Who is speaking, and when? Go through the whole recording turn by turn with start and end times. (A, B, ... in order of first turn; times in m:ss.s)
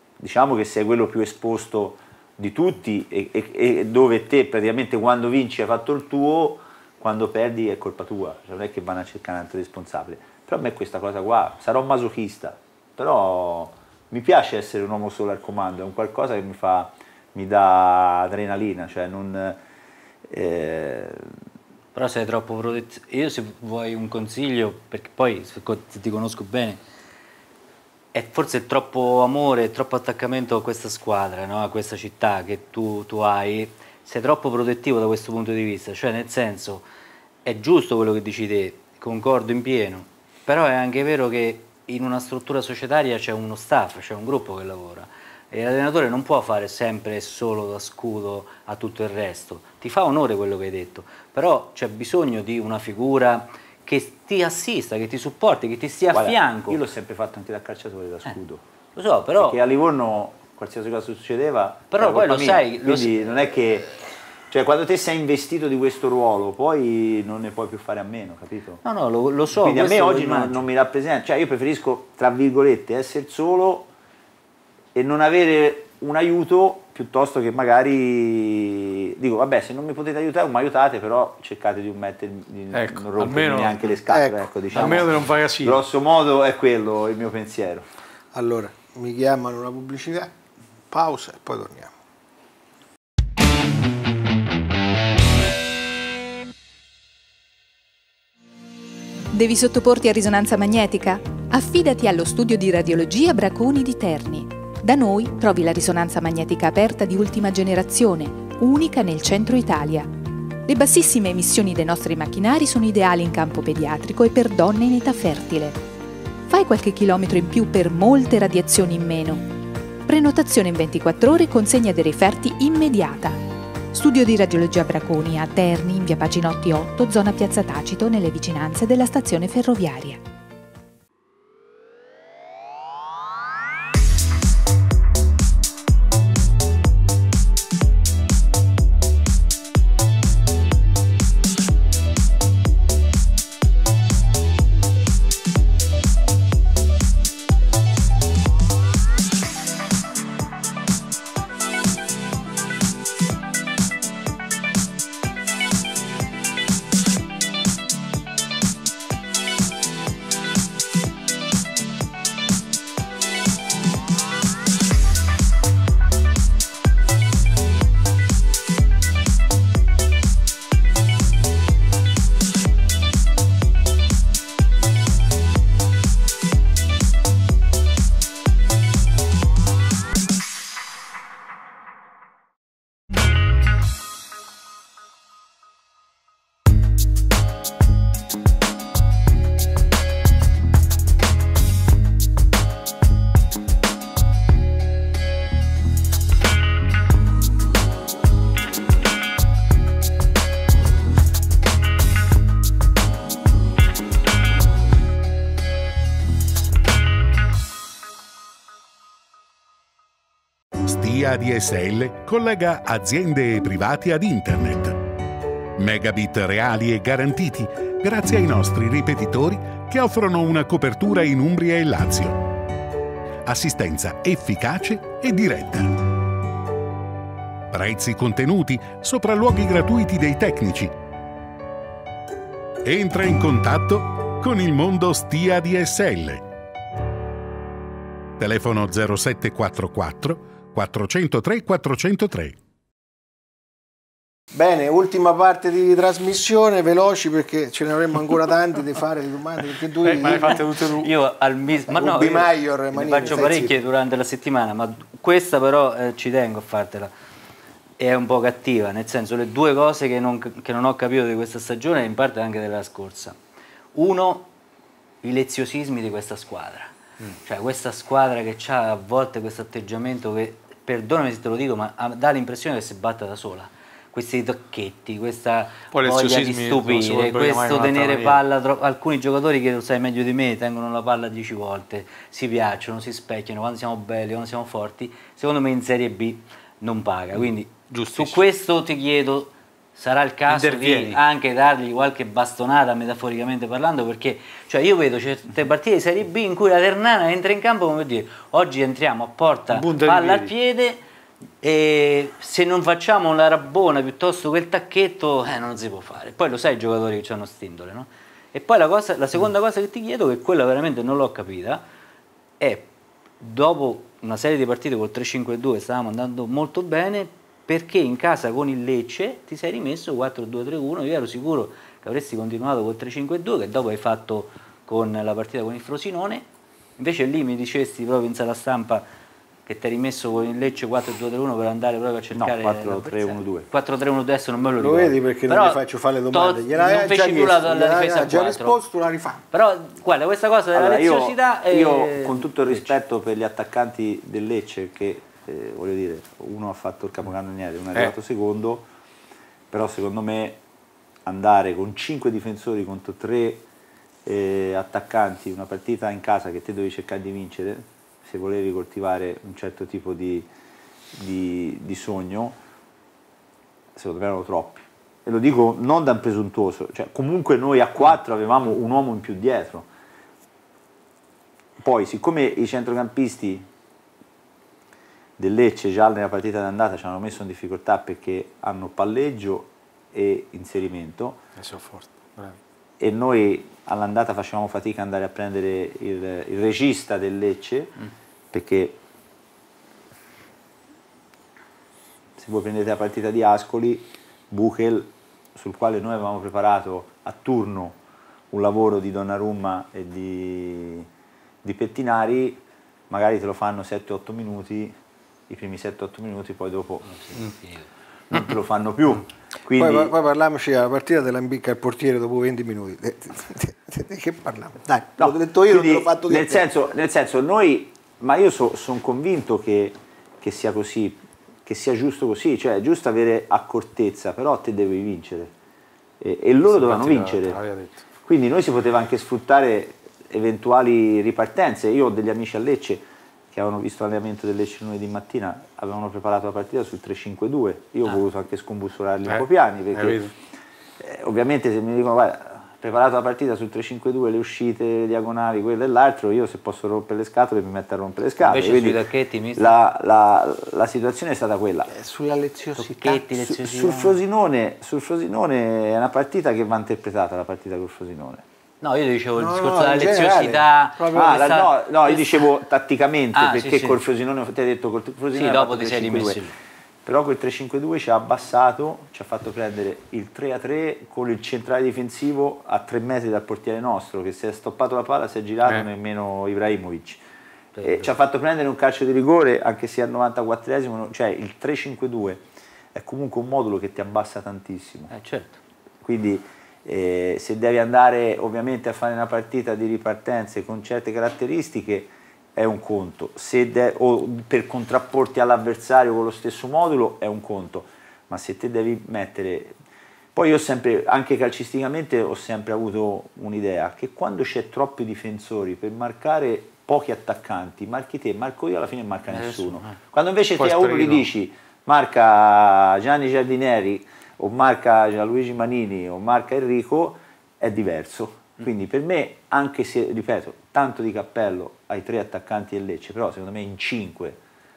0:00.2-0:19.6 A
0:20.3-0:21.3 A
0:21.9-0:26.8 B
0:28.1-0:36.8 B
0:37.4-0:56.8 B
0:56.1-0:58.6 A
0:59.0-0:59.6 B
0:59.4-1:03.9 A
1:01.9-1:03.6 B
1:04.5-1:08.8 A
1:08.8-1:10.6 B
1:09.6-1:13.9 A
1:14.9-1:27.8 A
1:22.7-1:23.8 C
1:24.1-1:24.4 D
1:24.7-1:25.8 C
1:28.3-1:30.3 D
1:30.9-1:31.9 D
1:39.3-1:50.1 E
1:50.6-1:55.8 E
1:56.5-1:59.5 E
2:00.0-2:10.2 E
3:30.8-3:35.0 F
3:35.8-3:42.5 F
3:43.4-3:46.2 F
3:47.7-3:50.9 F
3:52.8-3:56.4 F
3:58.4-4:02.6 F
4:04.5-4:10.6 D
4:10.0-4:11.1 C
4:10.2-4:17.1 B
4:11.9-4:13.7 D
4:18.0-4:23.4 B
4:23.9-4:24.5 B
4:25.2-4:26.9 B
4:27.4-5:01.0 B
4:35.9-4:38.4 C
4:47.9-4:48.4 C
4:50.5-4:51.2 C
4:59.7-5:00.5 C
5:01.6-5:11.8 B
5:12.6-5:12.9 B
5:13.4-5:26.4 B
5:27.0-5:29.0 B
5:29.6-5:38.8 B
5:32.4-5:33.7 A
5:34.8-5:39.4 D
5:39.5-5:42.9 B
5:40.7-5:48.8 A
5:49.7-5:50.6 A
5:51.2-5:53.6 A
5:54.2-6:00.5 A
6:01.1-6:02.6 A
6:04.0-6:09.9 A
6:11.8-6:13.6 A
6:15.4-6:21.4 A
6:21.6-6:22.6 C
6:23.0-6:27.9 A
6:28.5-6:29.0 A
6:32.4-6:38.0 A
6:38.5-6:41.1 A
6:41.6-6:44.9 A
6:45.5-6:47.1 A
6:47.0-6:47.9 B
6:48.3-6:50.1 A
6:49.8-6:56.6 D
6:55.2-7:05.5 A
7:06.2-7:07.6 A
7:06.7-7:08.0 C
7:08.2-7:20.3 A
7:19.3-7:20.3 C
7:21.0-7:29.0 A
7:28.4-7:29.7 B
7:29.5-7:31.9 A
7:31.9-7:33.2 D
7:32.8-7:34.2 B
7:33.2-7:38.4 A
7:38.8-7:42.4 B
7:39.4-7:41.5 D
7:41.1-7:46.4 A
7:43.3-7:44.0 B
7:45.3-7:46.5 B
7:47.0-7:57.2 A
7:57.7-7:58.1 B
7:57.8-8:02.4 A
8:02.9-8:05.1 A
8:05.1-8:05.6 B
8:06.0-8:19.7 A
8:20.3-8:44.4 A
8:29.5-8:29.9 B
8:30.6-8:31.3 C